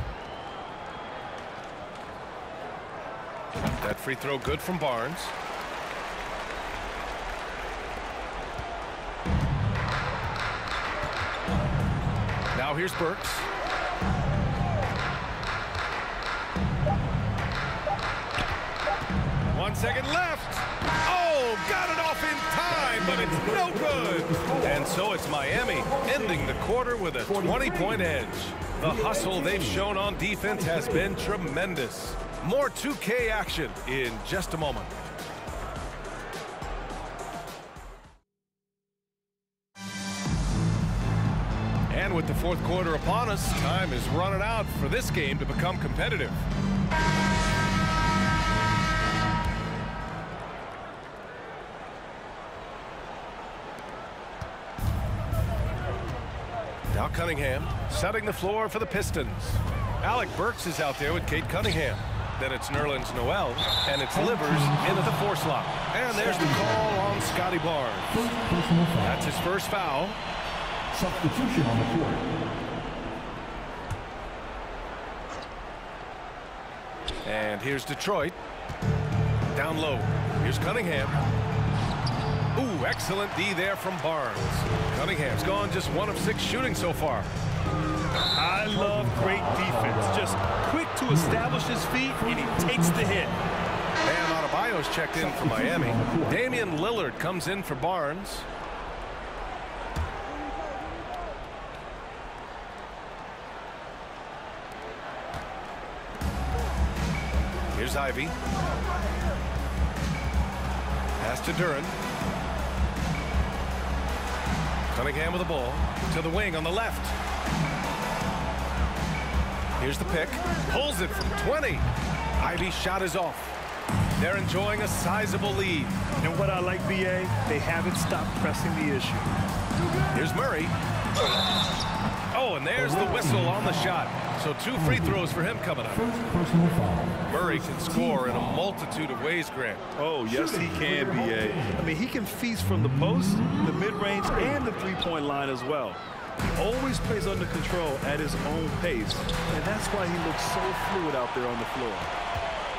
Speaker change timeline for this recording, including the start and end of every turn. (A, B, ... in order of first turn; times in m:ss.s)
0:03.8-0:05.3 A
0:12.5-0:13.4 A
0:19.5-0:34.9 A
0:22.8-0:25.0 B
0:25.8-0:26.6 B
0:27.2-0:28.1 B
0:28.8-0:29.9 B
0:30.5-0:31.1 B
0:41.9-0:46.4 A
0:56.9-1:08.2 A
1:04.1-1:05.2 B
1:06.1-1:07.0 B
1:08.1-1:09.3 B
1:09.0-1:10.2 A
1:10.9-1:12.3 B
1:17.2-1:18.4 A
1:19.5-1:21.2 A
1:22.5-1:27.3 A
1:28.3-1:33.4 C
1:28.7-1:30.4 B
1:31.1-1:31.5 B
1:32.1-1:33.3 B
1:34.0-1:38.4 A
1:35.1-1:36.4 B
1:47.7-1:48.3 A
1:51.2-1:51.9 A
1:54.9-1:57.1 A
1:59.8-2:01.8 A
2:02.4-2:03.5 A
2:04.2-2:05.9 A
2:06.2-2:09.3 C
2:10.1-2:10.7 A
2:12.3-2:16.1 A
2:12.7-2:13.9 B
2:14.8-2:15.3 B
2:15.9-2:18.6 B
2:17.3-2:19.8 A
2:20.0-2:32.1 C
2:20.3-2:21.9 B